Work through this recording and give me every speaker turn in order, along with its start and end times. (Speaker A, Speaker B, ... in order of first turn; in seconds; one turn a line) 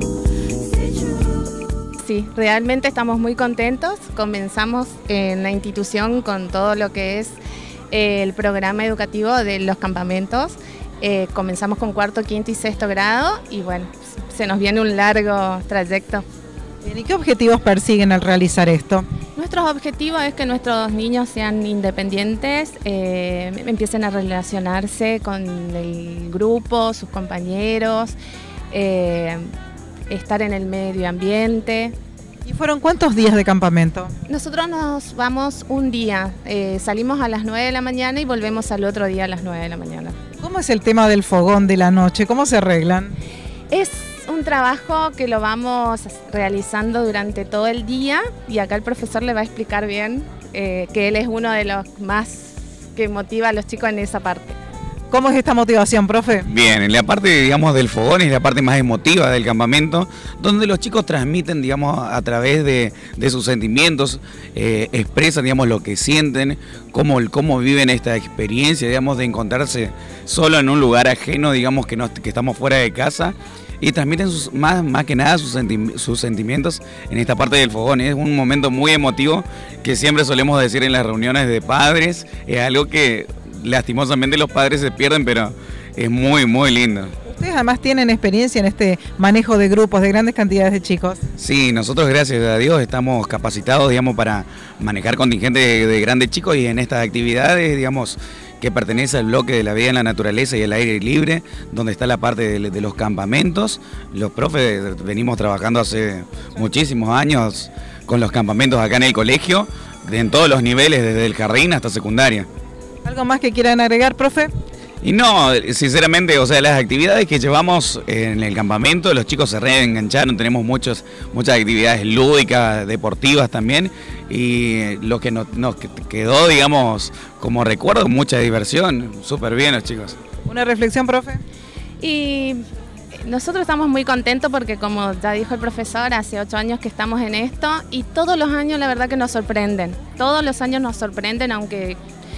Speaker A: 2.0-7.4
Speaker A: 7.9-16.2
Speaker B: 16.8-19.1
Speaker A: 19.4-28.2
Speaker A: 28.7-29.5
Speaker A: 30.1-31.9
Speaker B: 32.5-34.1
Speaker A: 34.3-40.2
Speaker B: 40.4-43.1
Speaker A: 43.7-54.6
Speaker B: 55.1-56.5
Speaker C: 56.5-87.1
Speaker B: 87.3-91.2
Speaker C: 91.4-112.5
Speaker B: 113.0-114.5
Speaker C: 115.0-130.2
Speaker B: 130.5-131.4
Speaker A: 132.0-132.6
Speaker A: 133.2-142.0